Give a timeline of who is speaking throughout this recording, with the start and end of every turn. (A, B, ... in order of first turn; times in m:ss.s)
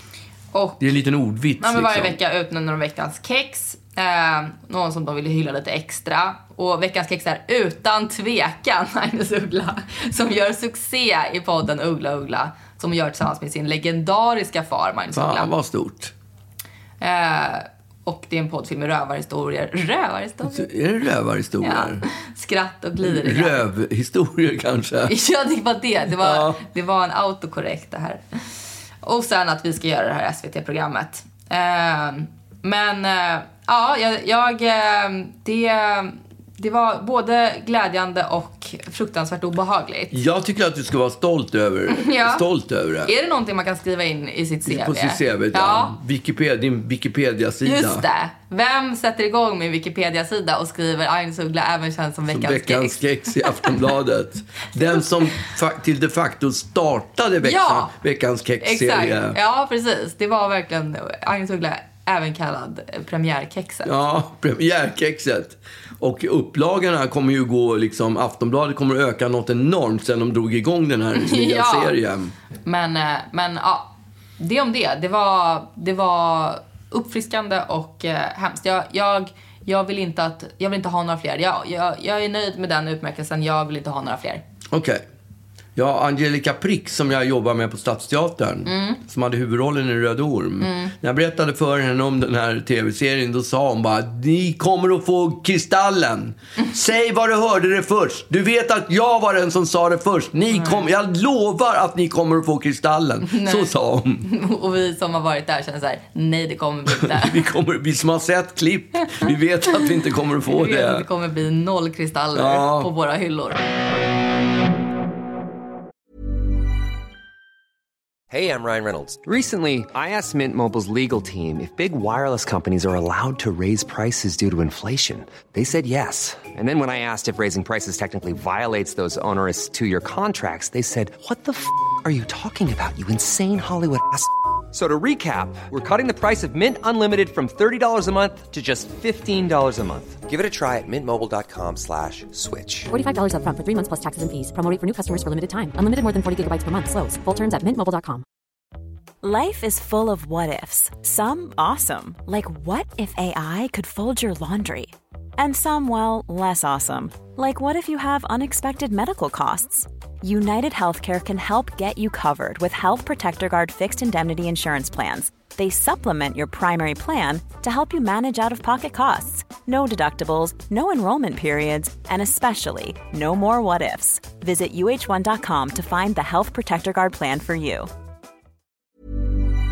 0:00.5-0:00.8 A
0:00.8-0:02.2 B
0:01.6-0:15.5 A
0:15.1-0:16.1 B
0:17.0-0:20.7 A
0:20.4-0:22.0 B
0:21.6-0:23.6 A
0:23.0-0:25.1 B
0:25.0-0:40.2 A
0:26.2-0:26.6 B
0:40.1-0:43.1 B
0:41.9-0:42.4 A
0:43.0-0:46.0 A
0:44.6-0:48.0 B
0:47.6-0:53.8 A
0:52.3-0:59.4 B
0:57.4-0:57.9 A
0:58.6-1:03.9 A
1:03.8-1:12.3 B
1:11.1-1:12.0 A
1:12.6-1:24.4 A
1:24.7-1:25.0 B
1:25.8-1:44.2 B
1:28.6-1:29.0 A
1:30.6-1:30.9 A
1:40.5-1:40.8 A
1:43.2-1:47.4 A
1:46.9-1:51.0 B
1:50.4-1:53.6 A
1:52.3-1:52.9 B
1:58.3-2:22.9 C
2:22.9-2:28.2 D
2:29.2-2:57.9 E